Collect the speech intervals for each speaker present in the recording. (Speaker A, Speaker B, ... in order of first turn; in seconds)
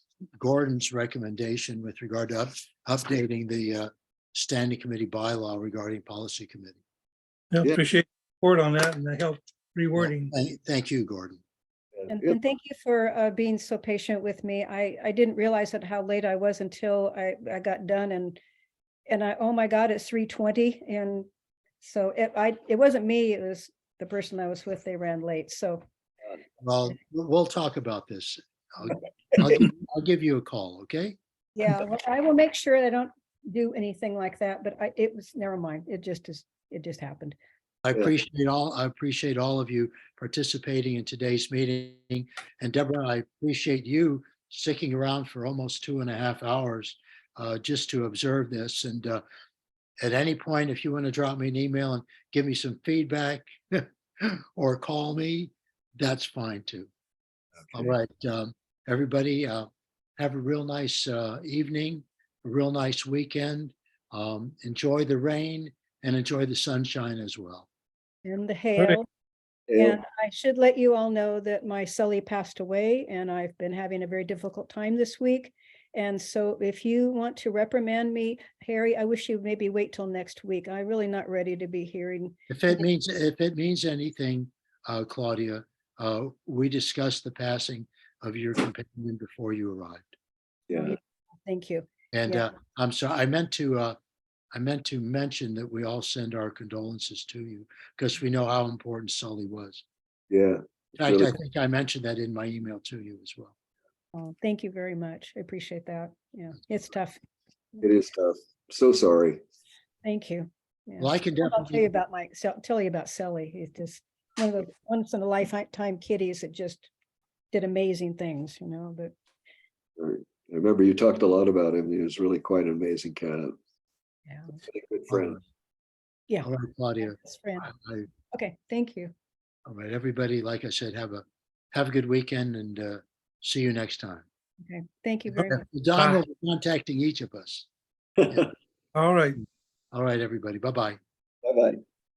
Speaker A: 0.4-6.8, 10.0-11.4, 26.6-31.2, 37.9-49.2, 50.0-56.9, 57.7-67.7, 82.5-90.1, 92.1-94.0, 94.5-99.8, 101.0-103.5, 111.0-112.0, 125.1-125.4, 126.4-128.1, 129.7-134.2, 135.4-137.7, 139.9-141.0
Speaker B: 7.5-10.3, 138.9-139.4
Speaker C: 12.0-12.4, 69.7-70.0, 90.7-91.0, 100.3-101.3, 107.8-109.4, 120.0-123.6, 124.6-125.4, 138.2-138.5, 141.4-141.8
Speaker D: 12.1-18.4, 19.1-21.3, 21.8-25.8, 31.6-37.4, 68.2-69.1, 69.8-82.9, 90.7-92.5, 104.1-107.2, 110.0-116.9, 117.5-119.1, 124.3-124.5, 127.0-127.7, 128.3-129.1, 134.6-135.6